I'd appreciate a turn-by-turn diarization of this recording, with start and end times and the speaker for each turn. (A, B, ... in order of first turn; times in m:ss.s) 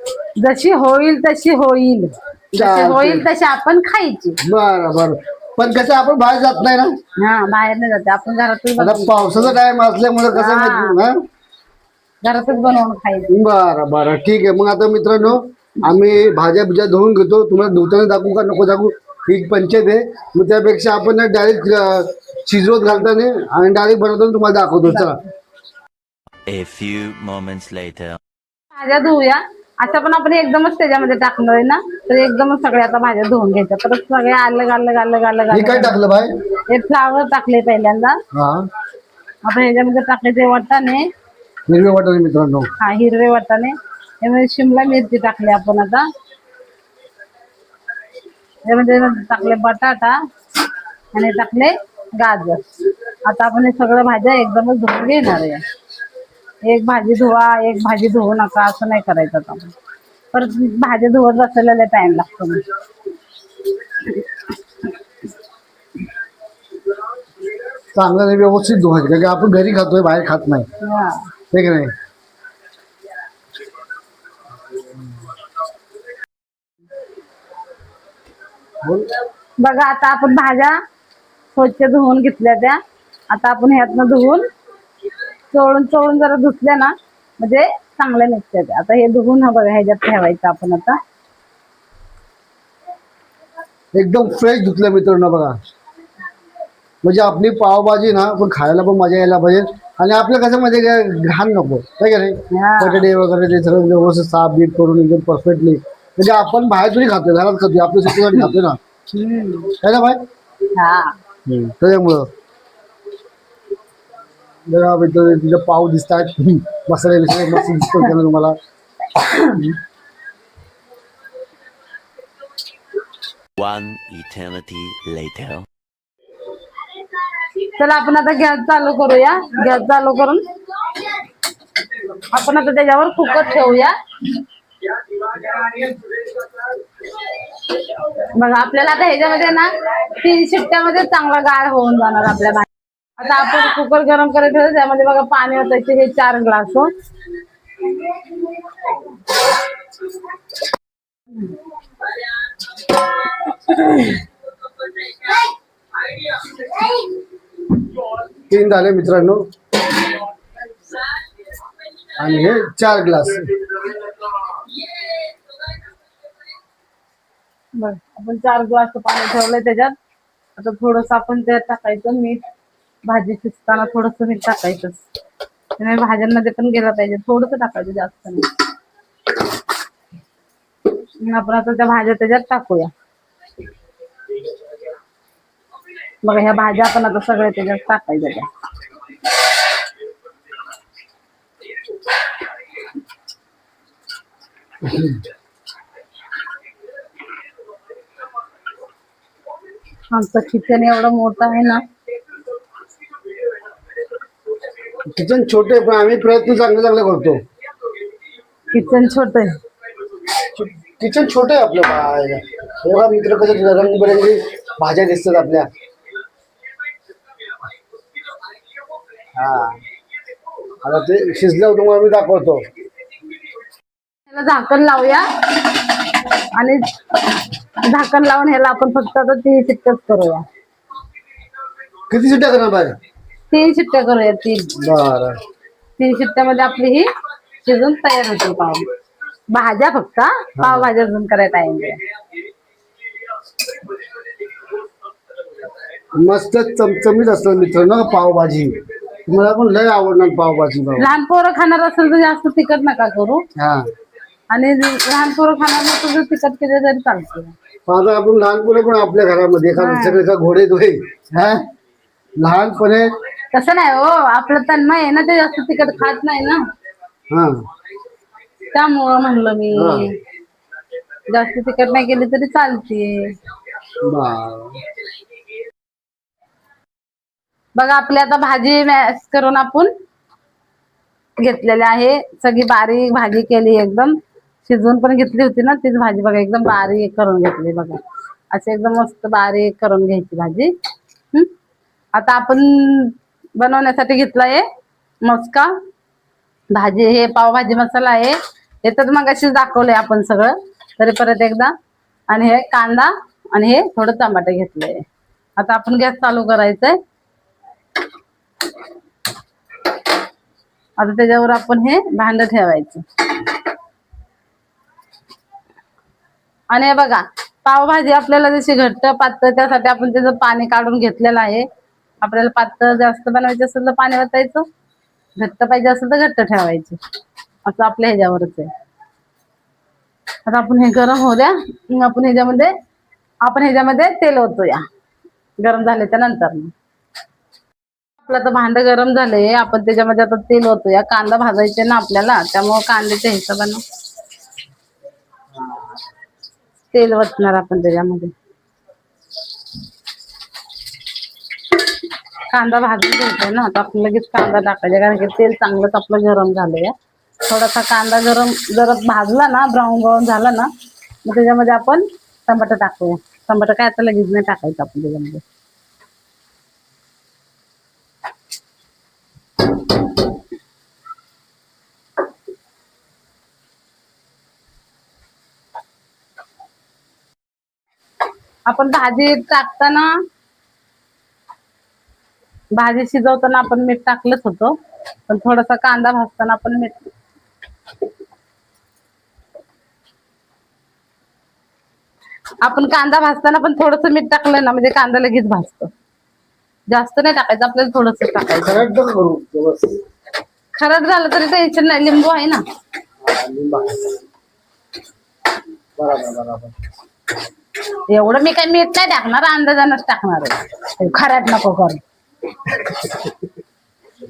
0:00.4-0:04.4 A
0:02.6-0:03.3 B
0:04.4-0:07.0 B
0:07.2-0:09.6 A
0:08.8-0:11.2 B
0:10.3-0:11.0 A
0:12.2-0:13.3 A
0:13.3-0:25.2 B
0:26.5-0:28.2 C
0:28.7-0:36.0 A
0:35.5-0:36.3 B
0:36.7-0:38.2 A
0:38.3-0:38.7 B
0:39.5-0:41.1 A
0:41.7-0:42.7 B
0:42.8-0:46.1 A
0:48.7-0:50.2 A
0:51.1-0:52.6 A
0:53.2-0:55.6 A
0:56.6-0:59.7 A
1:00.3-1:02.6 A
1:07.9-1:10.7 B
1:10.8-1:11.2 A
1:11.5-1:11.9 B
1:18.8-1:19.1 B
1:19.6-1:20.8 A
1:21.6-1:24.4 A
1:25.5-1:31.0 A
1:33.9-1:35.6 B
1:37.0-1:48.8 B
1:42.5-1:43.1 A
1:49.1-1:49.7 A
1:49.7-1:50.2 B
1:50.8-1:51.2 A
1:51.5-1:52.3 B
1:54.7-1:58.6 B
1:59.2-1:59.7 A
2:03.6-2:05.7 C
2:07.8-2:10.4 A
2:12.3-2:14.0 A
2:15.3-2:16.2 A
2:18.2-2:26.9 A
2:33.8-2:34.0 A
2:38.5-2:39.5 B
2:42.2-2:43.9 B
2:47.8-2:50.0 A
2:50.6-2:52.4 A
2:53.1-2:55.0 A
2:55.8-2:58.5 A
3:01.2-3:02.9 A
3:06.2-3:08.5 A
3:20.1-3:21.8 A
3:25.1-3:27.4 B
3:28.7-3:29.6 A
3:30.4-3:35.7 B
3:39.4-3:39.8 B
3:40.8-3:42.7 B
3:44.3-3:45.3 A
3:46.6-3:50.5 A
3:52.1-3:53.0 B
3:53.5-3:54.7 A
3:54.8-3:55.4 B
3:56.0-3:57.1 A
3:57.6-3:58.9 A
3:59.5-4:02.0 A
4:00.6-4:00.9 B
4:06.1-4:11.1 B
4:11.0-4:13.4 A
4:13.6-4:13.9 B
4:14.5-4:17.5 A
4:17.9-4:21.7 B
4:19.8-4:20.2 A
4:22.4-4:23.1 B
4:23.5-4:26.6 A
4:27.3-4:27.6 B
4:28.7-4:30.2 A
4:29.7-4:30.1 B
4:31.3-4:33.3 A
4:34.0-4:34.8 B
4:37.8-4:39.9 A
4:41.4-4:48.0 A
4:48.5-4:50.7 A
4:52.2-4:54.7 A
4:55.2-4:55.8 A
4:56.7-5:01.7 A
5:02.3-5:05.0 A
5:05.6-5:07.0 A
5:11.0-5:13.0 A
5:16.7-5:21.7 A
5:22.2-5:24.7 A
5:25.4-5:27.0 A
5:27.7-5:28.7 A
5:30.5-5:32.7 A
5:33.4-5:34.9 A
5:35.6-5:36.7 A
5:38.2-5:43.8 A
5:45.5-5:46.0 B
5:46.9-5:48.3 A
5:52.5-6:00.7 A
6:01.2-6:05.4 A
6:18.7-6:20.1 A
6:22.8-6:24.8 A
6:25.3-6:27.0 A
6:32.6-6:35.9 A
6:36.9-6:38.9 A
6:38.5-6:40.0 B
6:40.8-6:42.6 A
6:43.2-6:44.2 B
6:46.0-6:46.8 B
6:48.1-6:52.0 A
6:52.7-6:53.4 B